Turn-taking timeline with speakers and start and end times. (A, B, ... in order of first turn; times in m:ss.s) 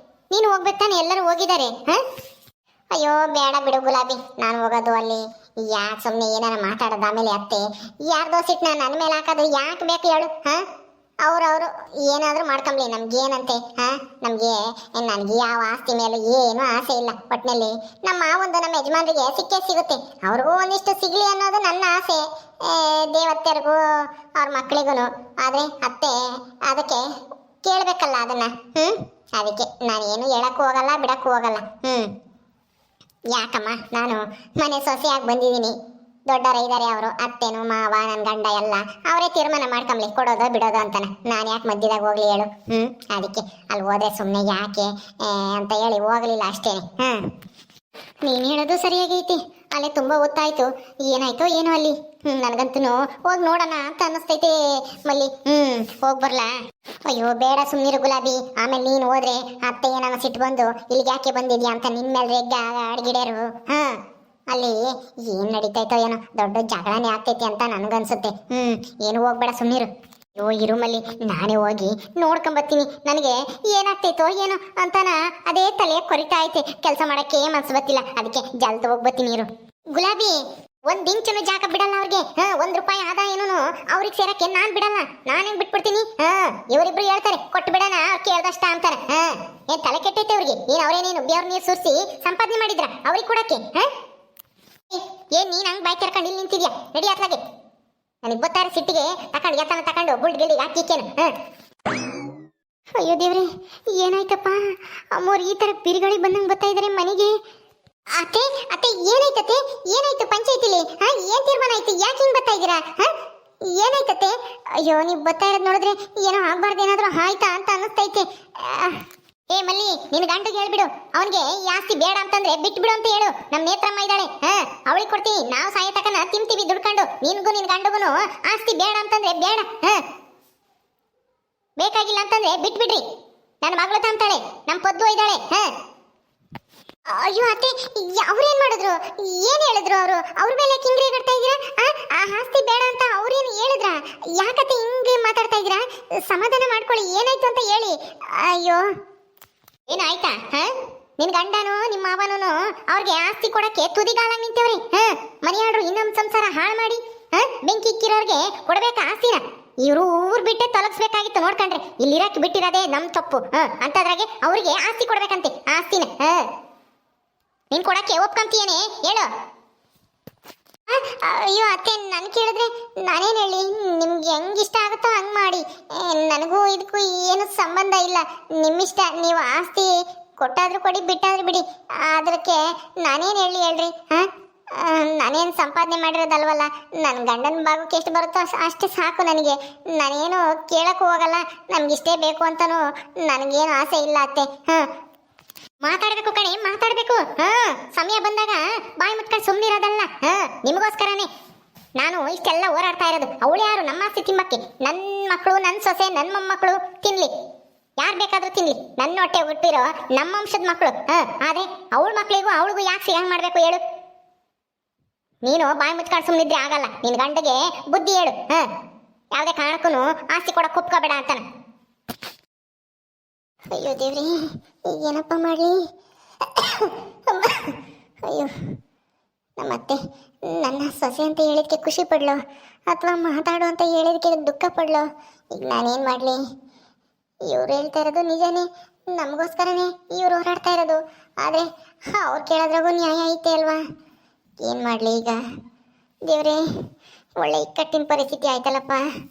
0:00.3-0:02.0 A
0:02.9-0:10.6 A
0:11.2-0:23.8 A
0:24.4-0:27.1 A
0:27.6-0:32.1 A
0:33.3-0:35.7 A
0:36.3-0:47.2 A
0:48.2-0:56.5 A
0:57.0-1:04.0 A
1:04.5-1:33.9 A
1:34.9-1:37.4 A
1:38.2-1:41.3 A
1:43.0-1:44.6 A
1:45.1-1:47.3 A
1:48.1-1:53.1 A
1:53.7-1:59.0 A
1:59.5-2:10.0 A
2:11.8-2:13.0 A
2:13.6-2:15.7 A
2:17.1-2:28.8 A
2:29.9-2:46.4 A
2:47.7-2:49.3 A
2:50.9-3:14.8 A
3:15.8-3:21.3 A
3:22.0-3:27.3 A
3:28.0-3:33.8 A
3:35.4-3:38.7 A
3:39.3-3:41.4 A
3:43.7-3:44.3 A
3:44.9-3:45.8 A
3:46.6-3:47.7 A
3:48.3-3:48.5 A
3:49.6-3:50.0 A
3:50.5-3:52.4 A
3:52.9-3:56.4 A
3:57.4-4:03.8 A
4:04.6-4:05.4 A
4:06.3-4:06.6 A
4:07.4-4:09.0 A